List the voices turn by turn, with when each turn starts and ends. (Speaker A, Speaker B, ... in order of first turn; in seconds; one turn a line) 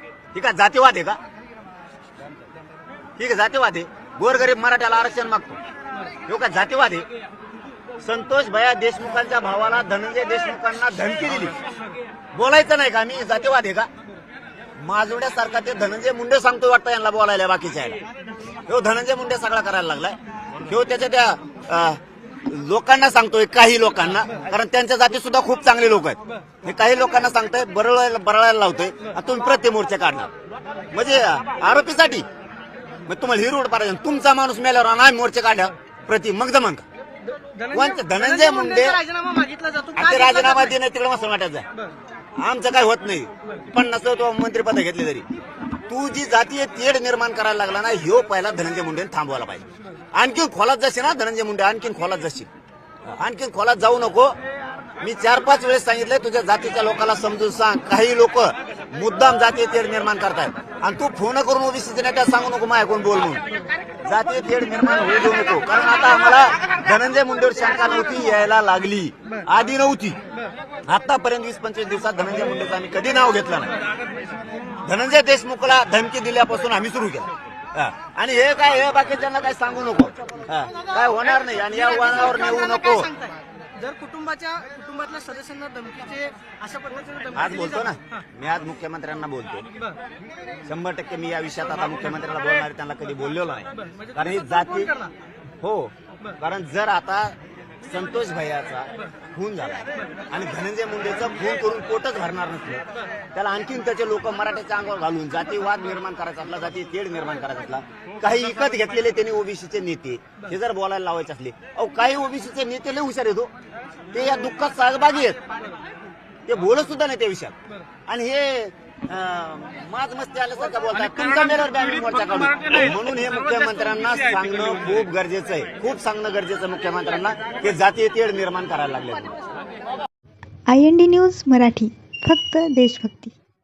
Speaker A: 0.3-1.2
Speaker A: 3.2-5.6
Speaker A: 6.3-7.1
Speaker A: 8.0-11.6
Speaker A: 12.3-13.9
Speaker A: 14.8-18.0
Speaker A: 18.7-30.3
Speaker A: 30.9-32.3
Speaker A: 33.1-36.9
Speaker B: 37.6-40.7
Speaker A: 37.7-39.0
Speaker A: 40.0-41.6
Speaker A: 42.4-45.3
Speaker A: 45.9-52.5
Speaker A: 53.1-54.4
Speaker A: 55.0-63.4
Speaker A: 64.0-70.2
Speaker A: 70.9-73.7
Speaker A: 74.8-83.1
Speaker B: 81.9-87.7
Speaker A: 87.3-89.7
Speaker A: 90.7-95.0
Speaker B: 94.8-95.1
Speaker A: 95.6-97.3
Speaker A: 97.9-113.5
Speaker A: 114.1-115.4
Speaker A: 116.5-117.6
Speaker A: 118.1-129.3
Speaker C: 130.7-133.4